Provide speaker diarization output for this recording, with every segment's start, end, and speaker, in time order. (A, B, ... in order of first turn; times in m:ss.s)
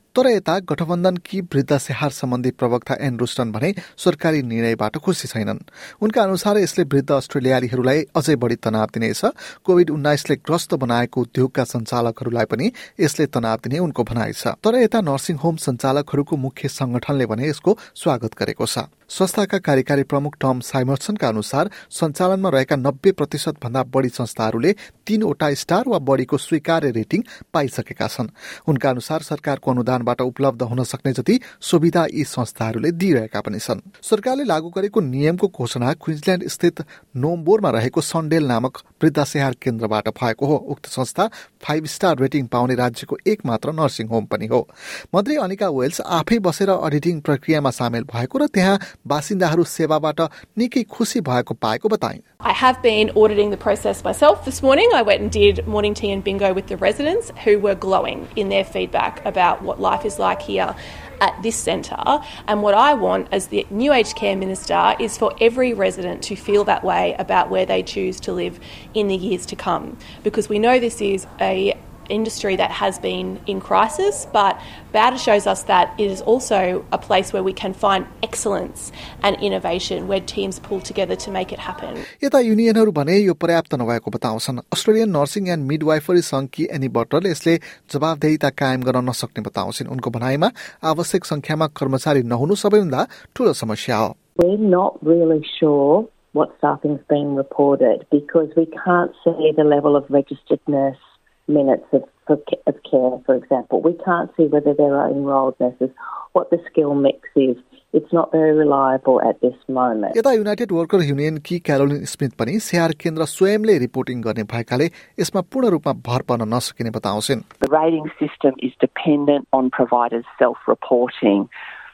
0:00.2-0:52.2 A
0:52.4-1:22.1 B
1:22.2-1:34.2 A
1:34.4-1:41.0 C
1:41.5-1:50.1 C
1:50.1-1:57.5 A
1:57.6-2:01.5 D